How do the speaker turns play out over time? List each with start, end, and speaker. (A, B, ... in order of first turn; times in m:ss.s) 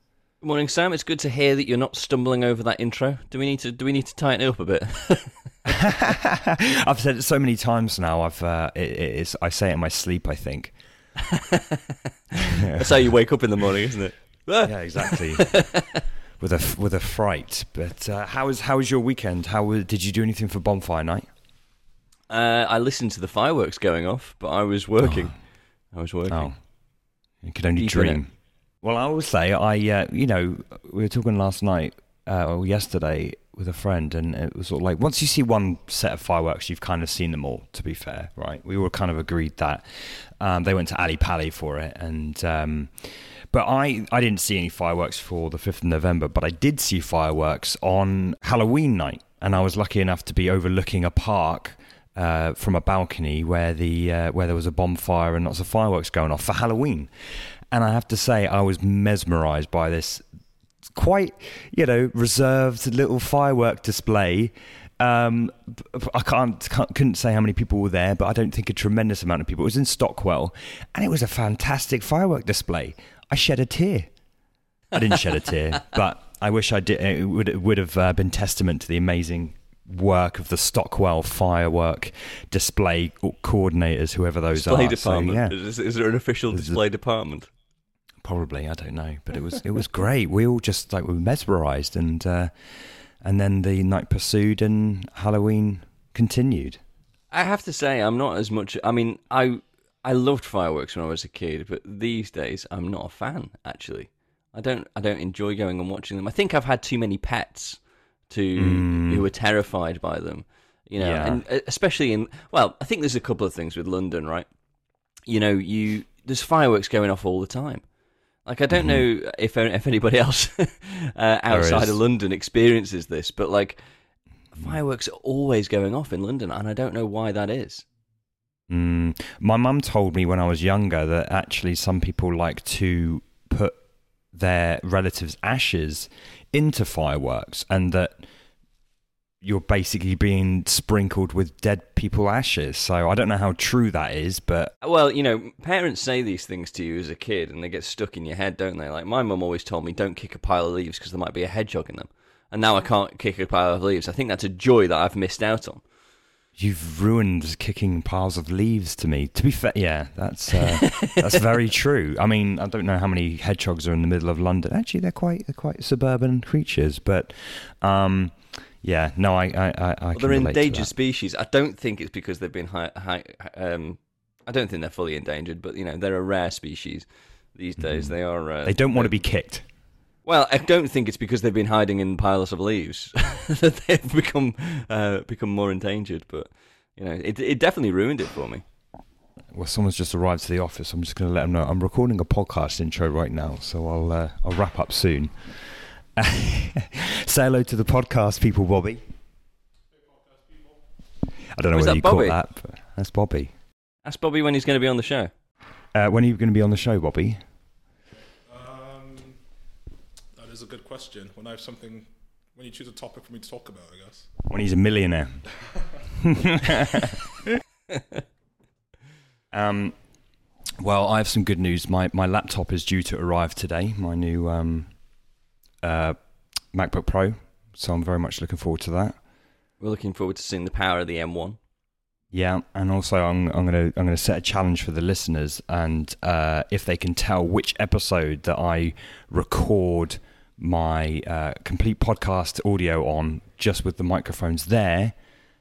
0:00.4-0:05.4 A
0:05.8-0:11.1 B
0:12.6-0:13.1 B
0:12.8-0:15.8 A
0:14.6-0:15.7 B
0:16.4-0:21.3 B
0:22.3-0:26.6 A
0:26.3-1:00.3 B
0:27.8-0:28.2 A
1:00.9-1:14.1 B
1:14.9-1:25.6 B
1:24.5-1:27.5 A
1:26.5-1:26.8 B
1:28.2-1:36.8 B
1:37.3-1:54.5 A
1:48.6-1:49.2 B
1:51.0-1:51.4 B
1:55.3-1:57.8 A
1:58.4-2:03.8 A
1:58.7-1:59.0 B
2:01.5-2:02.0 B
2:04.5-2:07.9 A
2:08.7-2:13.8 B
2:14.3-2:18.3 B
2:19.4-2:24.7 B
2:24.8-2:35.8 A
2:36.6-2:50.9 B
2:50.1-2:59.2 A
2:57.8-2:59.7 B
3:00.2-3:08.6 A
3:09.5-3:19.0 B
3:21.4-3:23.5 B
3:21.7-3:22.4 A
3:24.0-3:25.3 A
3:25.9-3:27.4 B
3:28.4-3:29.5 C
3:30.4-3:34.4 C
3:34.5-3:35.6 B
3:36.6-3:37.1 B
3:39.5-3:49.2 B
3:49.8-3:51.6 A
3:52.3-4:05.2 B